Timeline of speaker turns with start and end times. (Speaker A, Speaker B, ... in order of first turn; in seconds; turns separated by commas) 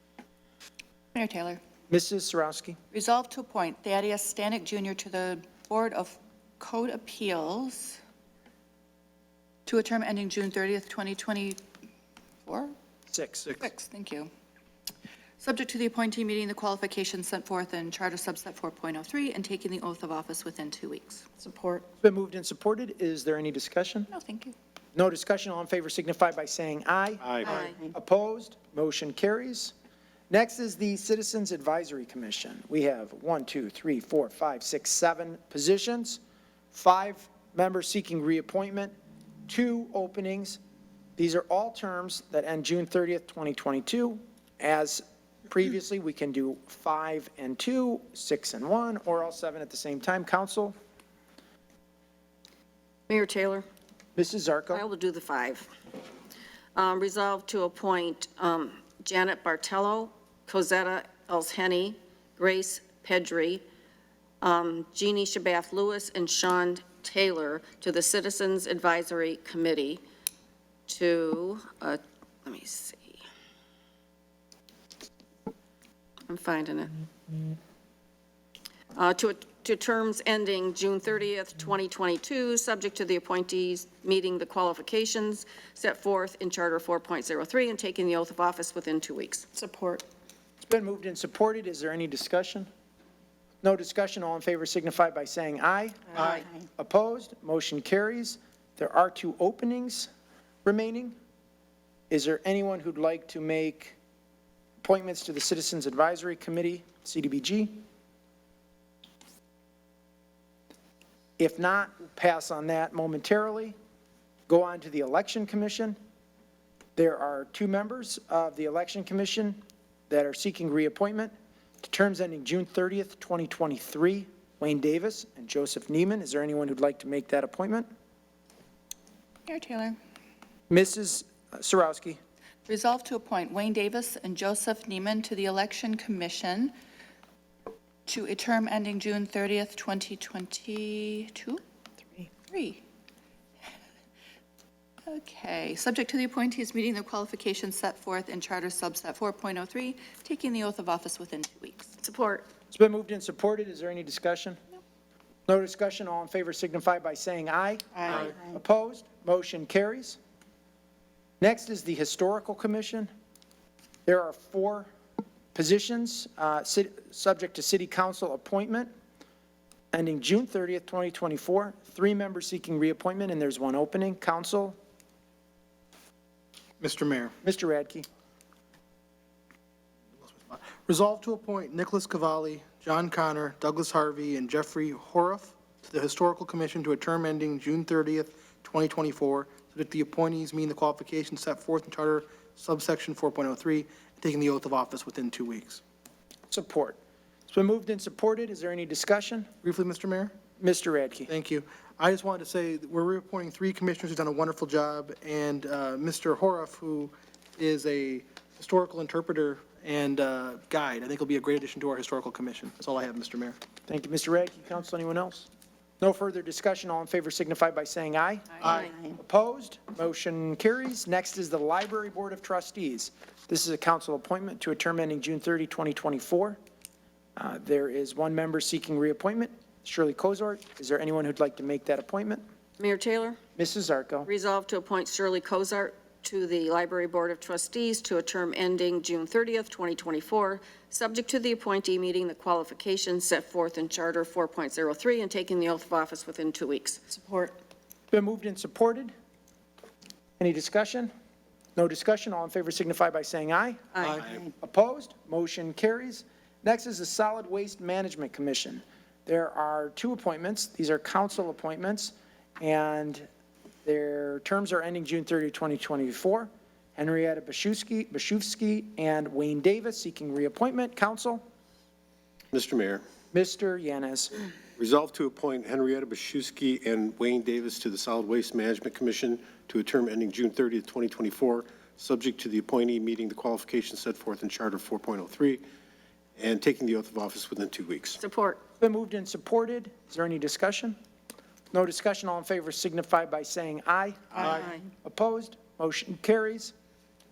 Speaker A: 1.1-1.6, Speaker B: 1.9-2.8, Speaker A: 2.9-8.0, Speaker A: 9.7-11.6, Speaker A: 12.5-12.8, Speaker B: 13.1-13.6, Speaker A: 13.6-14.3, Speaker A: 15.4-21.5, Speaker B: 22.0-24.1, Speaker A: 24.1-24.6, Speaker B: 24.9-29.7, Speaker C: 27.2-27.6, Speaker D: 27.4-27.7, Speaker B: 30.3-36.2, Speaker B: 36.7-38.9, Speaker B: 39.5-40.6, Speaker B: 41.2-50.8, Speaker D: 53.1-53.6, Speaker B: 54.2-54.8, Speaker D: 54.7-55.7, Speaker D: 56.8-63.6, Speaker D: 64.4-70.0, Speaker D: 70.9-73.2, Speaker D: 76.3-76.9, Speaker D: 79.0-90.0, Speaker B: 90.6-92.7, Speaker B: 93.6-100.1, Speaker E: 96.2-96.4, Speaker B: 100.7-101.2, Speaker B: 102.1-104.0, Speaker B: 104.8-107.8, Speaker B: 111.4-113.8, Speaker B: 114.5-116.0, Speaker B: 117.0-127.9, Speaker A: 129.5-130.0, Speaker B: 130.7-132.2, Speaker A: 132.7-136.8, Speaker A: 138.1-141.6, Speaker A: 142.2-142.8, Speaker A: 145.1-152.0, Speaker D: 152.0-152.5, Speaker B: 152.7-154.6, Speaker B: 155.5-160.2, Speaker B: 161.4-163.1, Speaker B: 164.1-164.9, Speaker B: 165.5-168.9, Speaker B: 169.9-174.8, Speaker E: 176.8-177.3, Speaker B: 177.4-178.1, Speaker E: 180.3-195.8, Speaker B: 196.5-199.5, Speaker E: 199.6-200.3, Speaker B: 200.6-201.3, Speaker E: 201.3-213.6, Speaker B: 213.9-215.5, Speaker B: 216.0-226.6, Speaker E: 218.6-218.9, Speaker B: 227.4-232.4, Speaker D: 232.8-233.4, Speaker B: 233.6-234.3, Speaker D: 234.3-247.5, Speaker B: 248.1-249.1, Speaker B: 250.4-251.1, Speaker B: 251.8-263.3, Speaker D: 253.9-254.2, Speaker B: 263.9-271.4, Speaker C: 272.5-273.0, Speaker B: 273.3-274.3, Speaker C: 274.8-285.6, Speaker C: 286.4-288.2, Speaker D: 288.2-288.6, Speaker B: 288.8-291.0, Speaker B: 291.7-296.7, Speaker D: 294.4-294.9